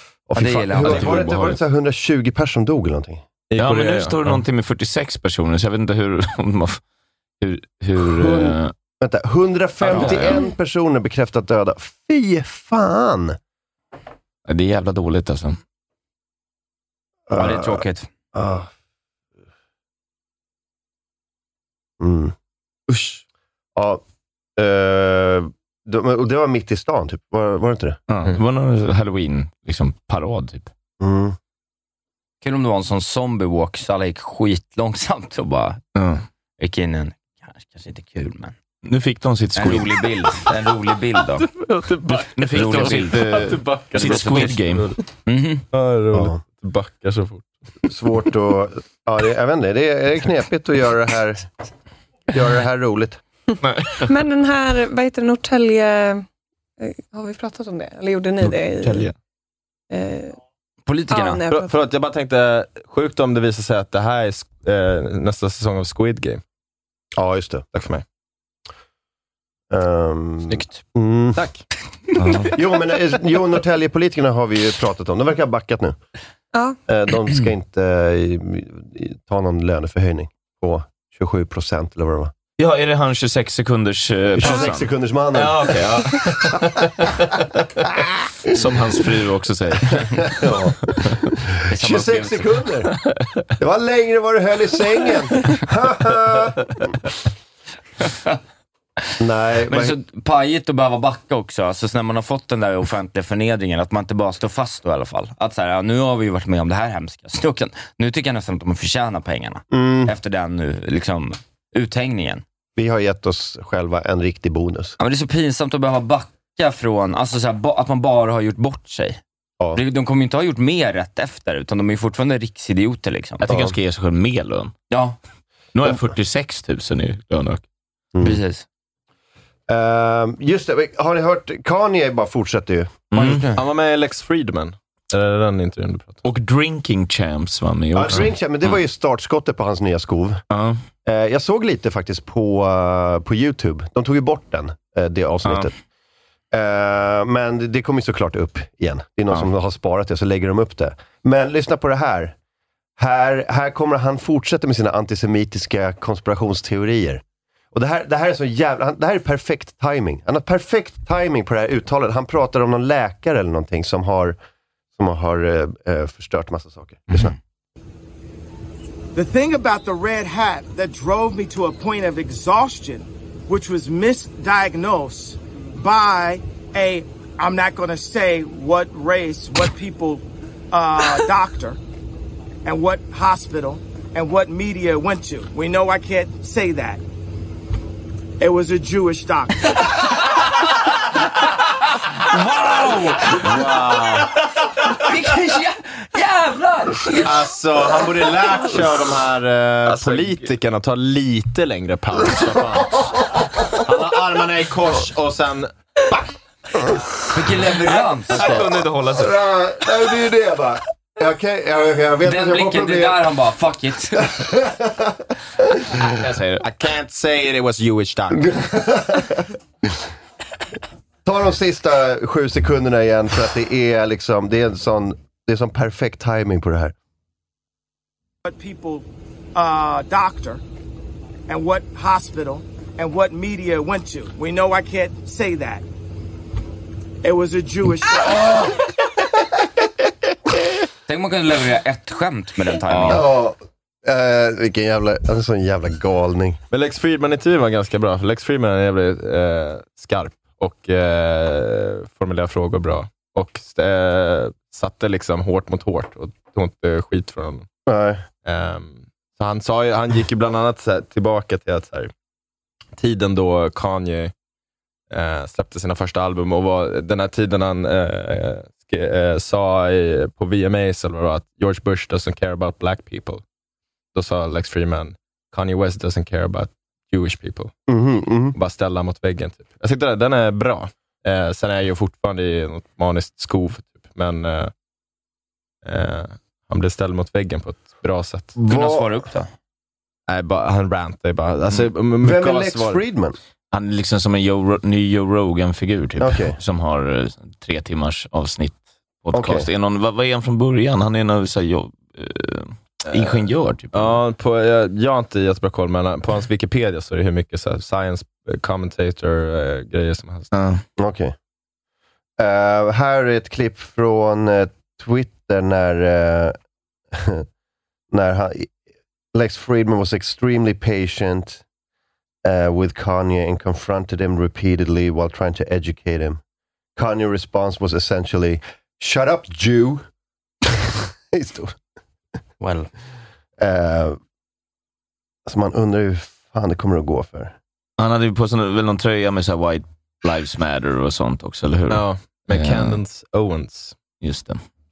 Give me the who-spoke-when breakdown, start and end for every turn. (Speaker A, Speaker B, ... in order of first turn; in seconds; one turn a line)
Speaker A: 0.3-3.2
Speaker B: 0.3-1.3
Speaker C: 0.8-1.5
Speaker D: 3.5-4.4
Speaker C: 3.5-6.8
Speaker C: 7.4-8.7
Speaker A: 8.2-13.4
Speaker B: 9.8-10.1
Speaker C: 9.9-10.4
Speaker C: 14.5-15.6
Speaker A: 17.3-18.7
Speaker B: 17.3-18.1
Speaker A: 22.0-22.3
Speaker A: 22.9-23.2
Speaker A: 23.8-24.0
Speaker A: 24.6-28.0
Speaker C: 28.1-30.7
Speaker A: 31.0-31.4
Speaker B: 32.4-35.8
Speaker C: 36.0-36.2
Speaker B: 36.6-38.5
Speaker C: 38.8-40.0
Speaker B: 39.5-41.5
Speaker D: 41.6-45.0
Speaker C: 42.3-44.9
Speaker B: 42.5-43.2
Speaker B: 43.9-44.6
Speaker B: 45.2-45.6
Speaker D: 45.7-47.5
Speaker A: 46.1-46.4
Speaker A: 47.9-51.5
Speaker A: 52.3-53.2
Speaker C: 53.6-54.1
Speaker E: 54.0-56.2
Speaker E: 56.8-59.1
Speaker C: 58.4-59.1
Speaker E: 59.9-60.4
Speaker B: 60.9-61.4
Speaker E: 61.1-61.7
Speaker D: 61.5-66.4
Speaker A: 67.2-67.6
Speaker D: 67.7-68.0
Speaker A: 69.7-71.4
Speaker D: 71.3-71.6
Speaker C: 72.2-72.5
Speaker A: 72.5-76.0
Speaker A: 76.9-82.3
Speaker C: 82.6-86.6
Speaker A: 84.3-87.6
Speaker C: 88.5-90.3
Speaker A: 90.2-92.9
Speaker B: 91.7-92.4
Speaker A: 93.6-96.7
Speaker A: 99.2-100.0
Speaker B: 99.7-112.4
Speaker A: 109.7-110.1
Speaker A: 112.8-115.0
Speaker B: 115.0-119.2
Speaker B: 119.7-123.4
Speaker C: 123.4-124.7
Speaker A: 123.5-123.7
Speaker B: 124.9-125.2
Speaker C: 125.7-127.6
Speaker A: 128.1-128.4
Speaker B: 128.2-128.6
Speaker A: 129.7-133.0
Speaker C: 133.1-133.4
Speaker B: 133.1-133.6
Speaker D: 133.5-136.2
Speaker C: 136.2-138.7
Speaker A: 137.9-140.4
Speaker C: 140.5-140.8
Speaker A: 141.0-145.7
Speaker A: 146.5-152.3
Speaker A: 153.0-157.2
Speaker A: 157.7-164.4
Speaker A: 165.0-167.3
Speaker F: 169.1-181.8
Speaker F: 182.6-187.0
Speaker F: 188.4-189.9
Speaker B: 192.3-193.4
Speaker D: 193.4-194.3
Speaker B: 194.8-197.4
Speaker D: 197.2-206.2
Speaker C: 199.8-200.4
Speaker B: 207.3-208.6
Speaker C: 207.9-209.4
Speaker A: 209.1-213.2
Speaker B: 212.2-214.4
Speaker A: 214.2-215.2
Speaker C: 216.0-216.6
Speaker D: 216.6-218.5
Speaker A: 218.3-219.5
Speaker A: 221.2-226.9
Speaker F: 228.4-230.6
Speaker F: 231.5-235.8
Speaker F: 237.2-238.8
Speaker B: 241.1-243.3
Speaker A: 243.0-246.6
Speaker D: 246.7-257.6
Speaker A: 257.9-258.2
Speaker D: 258.4-262.1
Speaker D: 263.0-264.3
Speaker D: 265.1-273.4
Speaker D: 274.1-277.7
Speaker A: 277.9-278.6
Speaker D: 278.5-284.7
Speaker D: 285.8-288.5
Speaker A: 288.6-289.2
Speaker B: 288.7-289.5
Speaker D: 290.3-293.0
Speaker A: 292.2-293.4
Speaker C: 293.7-304.2
Speaker A: 296.2-296.6
Speaker A: 299.3-299.7
Speaker D: 303.1-303.4
Speaker D: 303.9-310.5
Speaker C: 310.5-310.8
Speaker A: 311.0-311.3
Speaker A: 312.4-316.6
Speaker A: 317.1-317.4
Speaker A: 318.1-318.8
Speaker A: 319.3-321.6
Speaker A: 322.4-326.4
Speaker A: 326.9-330.1
Speaker A: 330.7-331.8
Speaker B: 332.6-332.9
Speaker A: 333.6-334.2
Speaker A: 335.4-337.6
Speaker C: 338.0-343.0
Speaker D: 341.9-344.0
Speaker C: 344.2-344.6